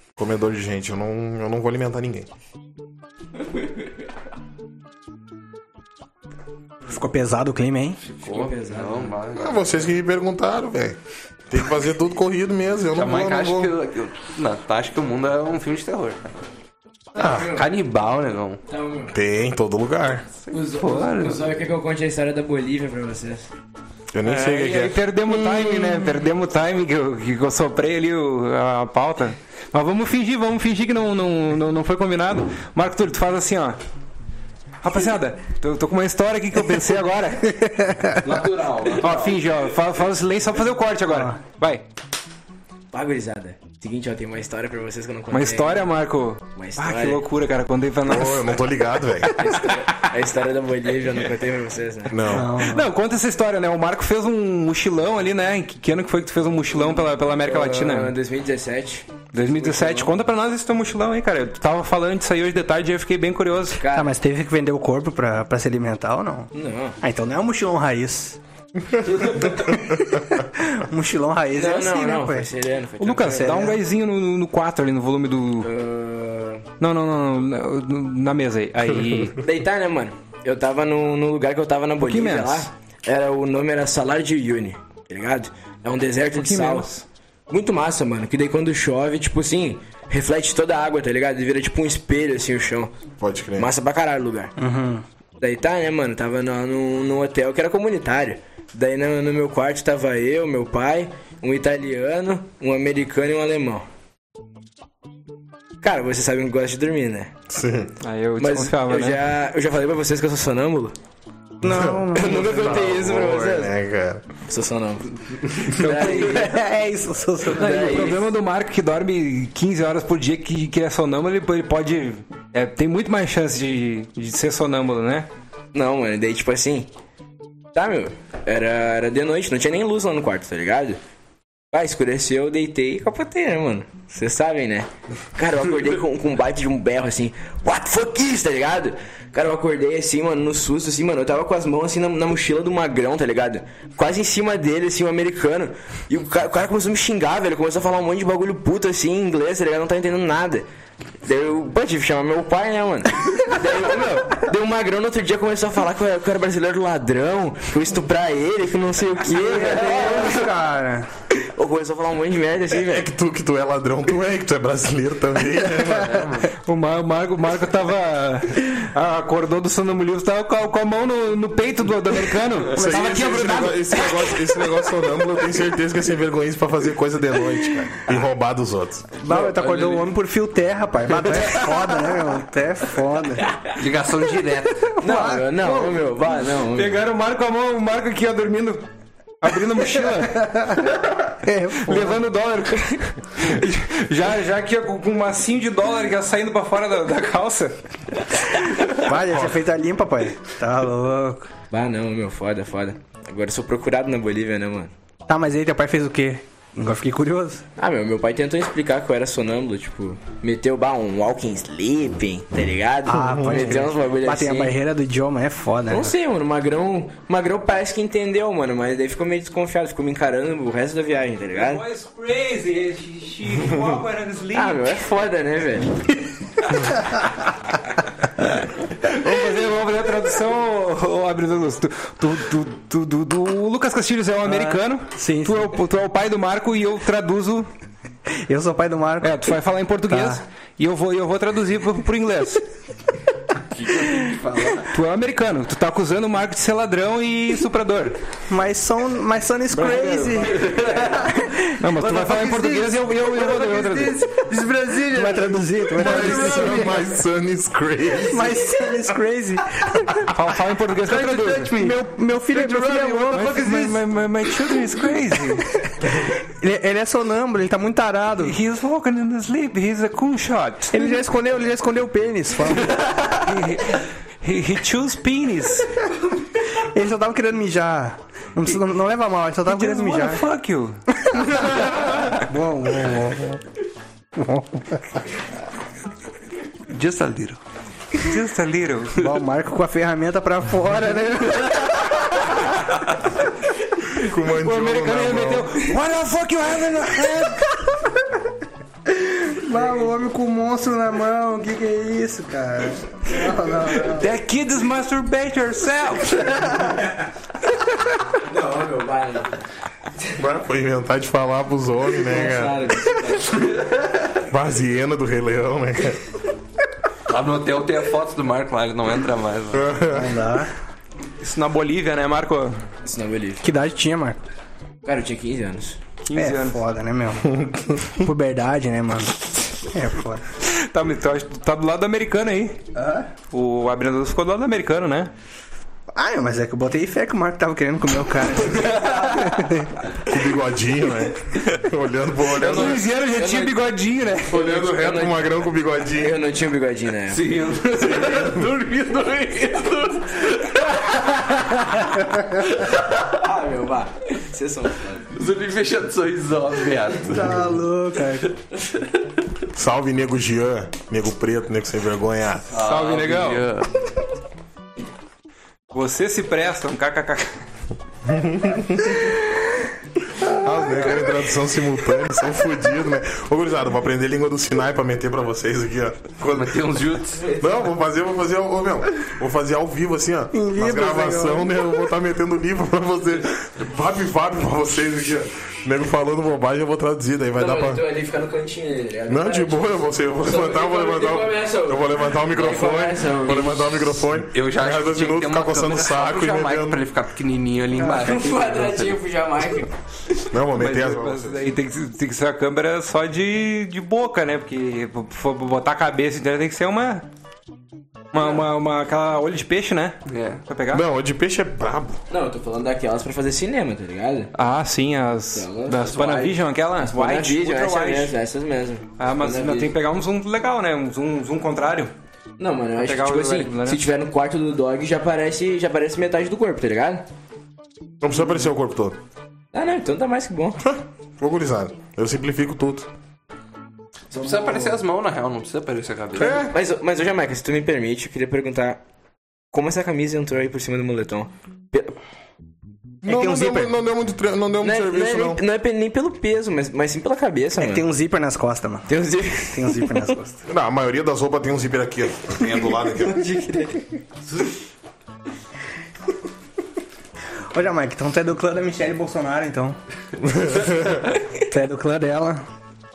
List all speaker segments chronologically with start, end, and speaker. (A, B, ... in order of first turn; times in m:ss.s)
0:00.2-0:02.3 A
0:06.8-0:08.0 B
0:08.1-0:09.8 C
0:08.2-0:09.1 D
0:09.3-0:11.0 A
0:11.5-0:13.7 A
0:12.9-0:16.3 C
0:17.2-0:17.6 A
0:17.2-0:17.6 D
0:17.4-0:18.6 C
0:18.7-0:19.1 D
0:19.1-0:20.3 A
0:20.5-0:21.5 C
0:20.5-0:23.5 D
0:24.1-0:25.0 A
0:24.2-0:33.8 E
0:34.8-0:37.7 E
0:37.6-0:38.2 B
0:38.2-0:39.4 C
0:39.0-0:41.8 E
0:41.1-0:41.4 B
0:42.9-0:45.9 D
0:45.3-0:48.6 E
0:46.6-0:47.2 D
0:48.0-0:49.3 A
0:49.2-0:50.1 E
0:49.4-0:52.2 D
0:52.1-0:52.5 A
0:52.3-0:52.9 B
0:52.6-0:58.1 E
0:57.4-1:00.1 D
0:59.3-1:03.8 E
1:03.8-1:04.1 D
1:03.9-1:06.5 B
1:06.5-1:07.0 D
1:07.0-1:08.4 B
1:09.1-1:09.6 D
1:09.5-1:12.5 B
1:11.5-1:13.7 D
1:13.0-1:15.7 E
1:13.3-1:13.8 B
1:15.6-1:16.6 D
1:16.8-1:19.4 E
1:19.4-1:26.9 D
1:22.0-1:22.7 E
1:26.3-1:27.0 E
1:27.5-1:32.9 D
1:33.2-1:33.7 A
1:33.6-1:34.5 D
1:34.6-1:35.0 B
1:35.4-1:43.8 D
1:45.8-1:47.3 D
1:47.5-1:47.9 A
1:48.0-1:49.2 E
1:48.4-1:50.9 D
1:51.6-1:52.9 B
1:51.6-1:54.2 A
1:52.2-1:53.7 D
1:54.5-1:56.6 D
1:55.8-1:58.2 B
1:57.5-1:58.2 D
1:57.5-2:05.3 E
2:05.7-2:06.9 D
2:07.7-2:11.0 D
2:11.7-2:30.6 D
2:31.2-2:40.5 D
2:39.2-2:41.1 B
2:39.4-2:39.9 A
2:41.3-2:43.1 D
2:42.8-2:46.4 A
2:46.0-2:46.5 C
2:46.6-2:54.4 E
2:52.7-2:59.1 A
2:59.2-3:03.5 B
2:59.2-3:00.1 C
3:01.3-3:01.8 C
3:03.7-3:04.9 C
3:05.0-3:06.0 B
3:05.0-3:07.0 D
3:06.6-3:08.8 E
3:09.4-3:10.7 E
3:10.2-3:12.2 B
3:11.8-3:17.8 E
3:18.9-3:21.5 B
3:21.7-3:24.9 D
3:25.3-3:27.6 B
3:27.8-3:34.7 D
3:33.0-3:36.1 B
3:33.2-3:33.8 A
3:35.9-3:41.8 D
3:41.5-3:45.0 E
3:44.5-3:46.2 D
3:48.9-3:57.7 E
3:54.4-3:55.7 B
3:58.3-3:59.5 B
3:59.2-4:02.6 E
4:00.1-4:00.4 B
4:03.7-4:04.9 C
4:04.9-4:08.2 E
4:08.5-4:11.7 B
4:09.7-4:10.5 E
4:10.5-4:11.3 C
4:11.7-4:14.2 E
4:11.9-4:17.0 C
4:15.0-4:17.0 B
4:15.9-4:18.6 A
4:18.2-4:20.2 B
4:20.2-4:21.7 E
4:21.0-4:23.8 C
4:21.8-4:24.0 B
4:23.3-4:25.7 E
4:25.8-4:28.6 B
4:28.4-4:31.0 E
4:30.9-4:33.0 B
4:33.4-4:35.9 E
4:36.8-4:40.4 B
4:39.7-4:41.0 E
4:41.1-4:43.6 B
4:44.3-4:45.2 B
4:46.9-4:47.6 C
4:48.2-4:49.2 E
4:49.2-4:52.2 B
4:54.1-4:55.8 A
4:54.2-4:57.7 E
4:59.1-5:04.3 B
5:03.9-5:06.9 E
5:08.4-5:09.5 D
5:10.4-5:12.9 A
5:12.2-5:13.7 D
5:14.5-5:16.2 A
5:17.3-5:19.9 C
5:19.7-5:20.4 A
5:20.1-5:20.7 B
5:21.4-5:22.8 E
5:23.0-5:23.6 D
5:23.6-5:24.4 B
5:25.0-5:26.0 D
5:26.2-5:26.8 E
5:26.3-5:30.4 B
5:27.5-5:28.0 A
5:30.6-5:32.8 E
5:33.5-5:35.3 E
5:36.1-5:39.9 B
5:38.8-5:39.4 C
5:40.2-5:43.1 A
5:42.6-5:42.9 C
5:42.6-5:44.7 E
5:42.7-5:43.8 D
5:44.5-5:46.4 A
5:44.5-5:45.4 D
5:46.1-5:47.5 D
5:47.3-5:52.2 C
5:52.7-5:53.2 C
5:53.3-5:55.3 D
5:55.3-5:57.7 C
5:57.2-5:58.5 B
5:59.7-6:02.7 A
6:02.7-6:03.9 C
6:02.7-6:03.6 E
6:05.9-6:07.6 E
6:08.2-6:09.4 A
6:10.4-6:16.8 A
6:16.4-6:17.5 C
6:17.4-6:17.8 D
6:17.6-6:28.0 A
6:20.5-6:21.8 B
6:27.5-6:34.1 D
6:29.3-6:37.0 A
6:34.5-6:39.2 C
6:38.0-6:39.9 D
6:40.5-6:41.6 A
6:40.7-6:47.2 E
6:48.3-6:51.0 E
6:50.2-6:50.6 C
6:50.9-6:52.2 A
6:52.3-6:54.5 D
6:54.5-6:58.3 E
6:55.5-6:59.9 D
6:59.2-7:02.1 E
7:02.6-7:07.3 D
7:03.0-7:04.0 E
7:08.2-7:09.2 A
7:09.7-7:10.8 D
7:10.8-7:13.1 A
7:14.3-7:16.6 C
7:14.3-7:14.8 D
7:16.4-7:16.7 A
7:16.4-7:19.0 D
7:19.7-7:22.2 D
7:23.2-7:25.6 A
7:23.2-7:23.9 B
7:24.8-7:28.0 D
7:27.8-7:29.1 B
7:29.1-7:30.3 D
7:29.7-7:30.6 B
7:30.7-7:33.5 A
7:33.2-7:34.1 D
7:37.7-7:40.0 B
7:40.4-7:41.4 A
7:41.6-7:42.6 B